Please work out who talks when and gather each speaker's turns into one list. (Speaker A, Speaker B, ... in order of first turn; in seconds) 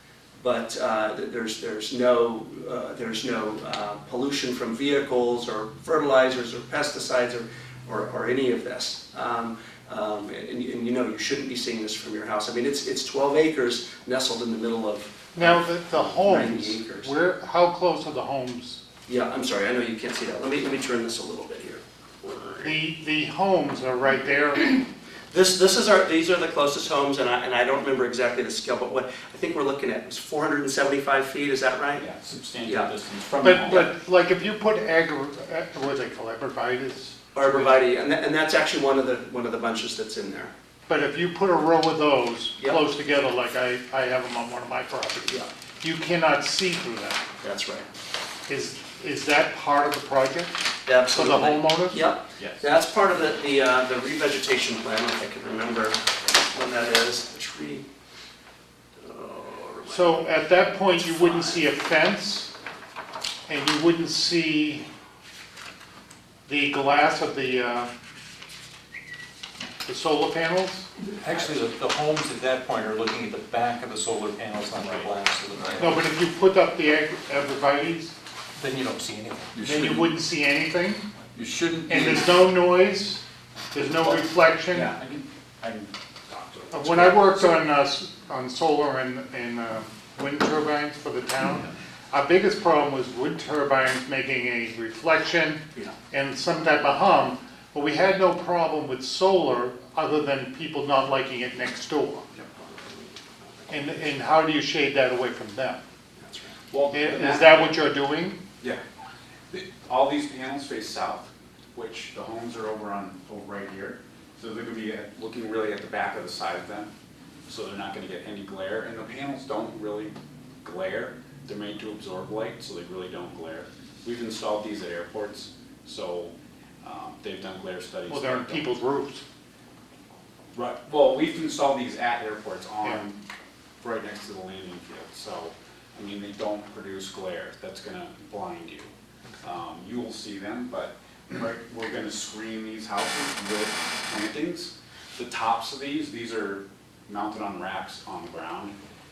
Speaker A: 0.4-17.1, 19.1-22.7, 25.3-32.0, 32.6-32.9, 37.3-40.5, 47.4-47.9, 50.8-57.8, 59.0-61.6, 102.3-103.1, 106.2-106.6
Speaker B: 15.3-18.8, 22.6-24.8, 33.4-37.7, 40.9-47.2, 48.5-50.5, 51.1-52.0, 59.9-62.5, 63.5-64.8, 66.5-67.9, 69.8-70.9, 75.8-78.1, 79.7-81.0, 81.9-84.9, 86.7-102.2, 103.7-105.8, 106.9-108.4, 128.1-129.2
Speaker C: 32.0-33.9, 52.4-52.7, 84.0-87.6, 106.7-107.8, 109.5-116.9, 117.5-128.7, 130.5-133.2, 133.8-138.9, 139.4-148.8
Speaker D: 72.6-73.4, 74.9-76.0
Speaker E: 75.5-76.0, 79.5-80.2, 81.3-82.6